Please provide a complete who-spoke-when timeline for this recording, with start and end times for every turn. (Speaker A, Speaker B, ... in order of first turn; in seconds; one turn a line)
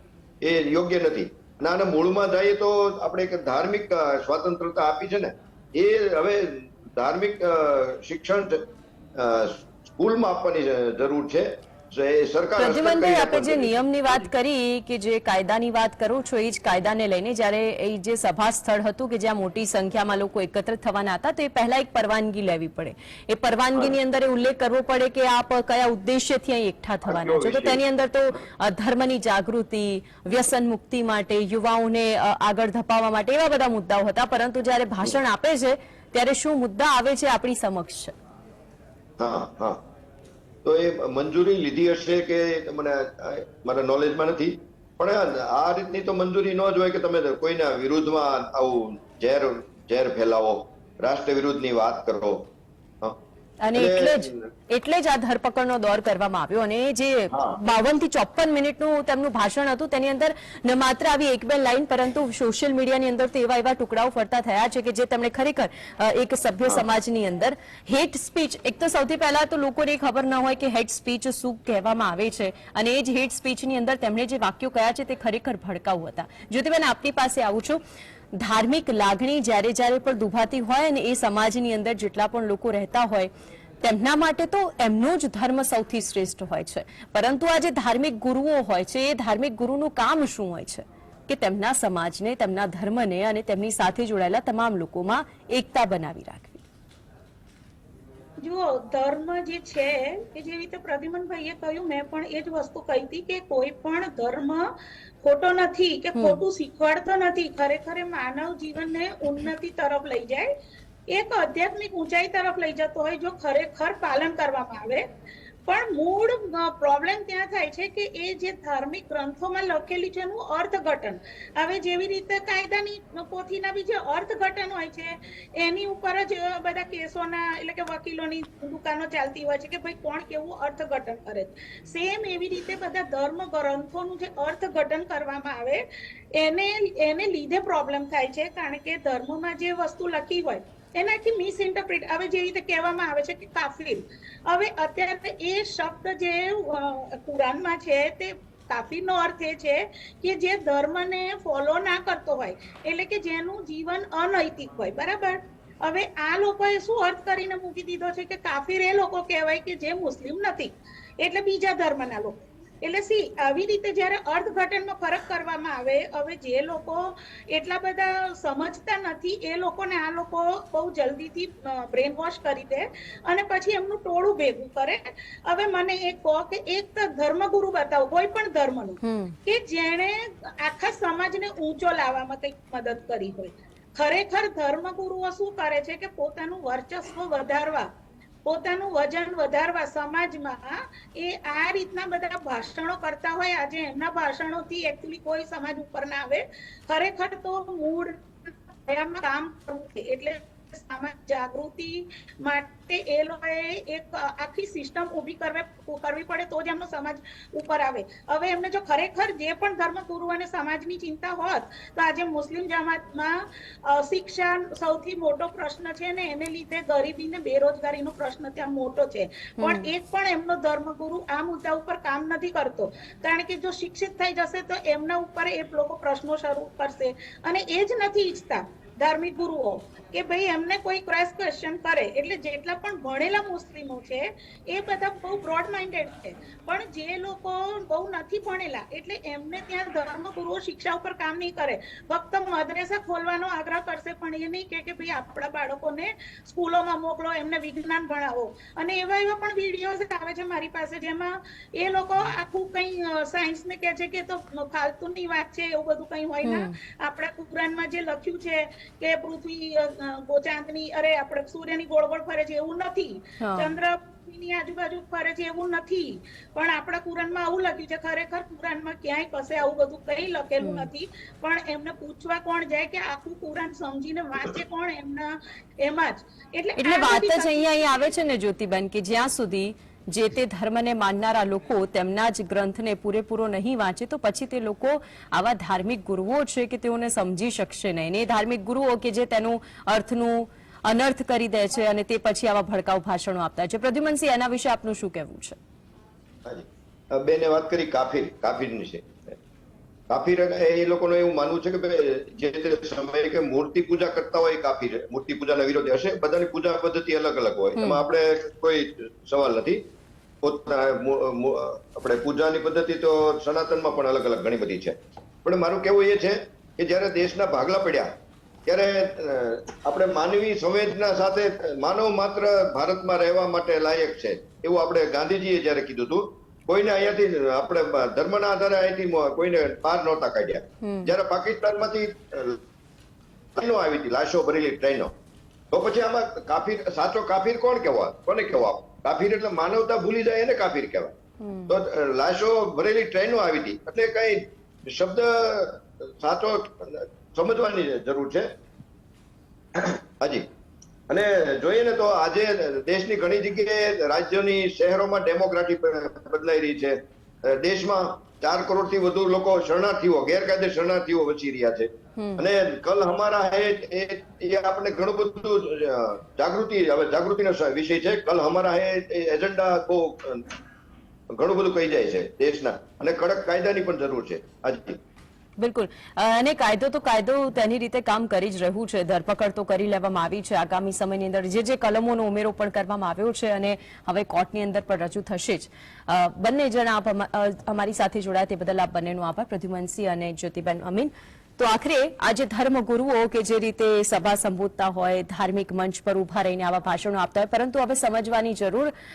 Speaker A: 0.4-14.2
Speaker B: 12.6-38.1
Speaker A: 27.0-27.8
Speaker A: 39.2-39.8
Speaker A: 40.6-52.5
Speaker B: 53.6-77.8
Speaker A: 53.7-54.4
Speaker A: 57.3-57.6
Speaker B: 78.3-83.3
Speaker B: 83.8-96.6
Speaker C: 98.4-104.7
Speaker C: 105.2-110.5
Speaker B: 106.2-106.4
Speaker C: 111.1-115.1
Speaker C: 115.7-187.9
Speaker B: 179.0-179.4
Speaker C: 188.4-278.1
Speaker B: 219.6-219.9
Speaker B: 256.4-256.7
Speaker B: 263.4-263.7
Speaker B: 270.6-270.9
Speaker B: 276.8-295.6
Speaker A: 296.4-299.4
Speaker A: 300.1-309.8
Speaker B: 307.8-308.0
Speaker A: 310.4-318.1
Speaker A: 318.6-332.6
Speaker B: 330.8-331.1
Speaker A: 333.5-335.1
Speaker A: 335.7-341.1
Speaker B: 341.4-341.8
Speaker A: 341.7-348.5
Speaker A: 349.7-350.5
Speaker A: 351.1-370.5
Speaker B: 362.2-362.4
Speaker A: 371.3-375.0
Speaker B: 375.6-398.9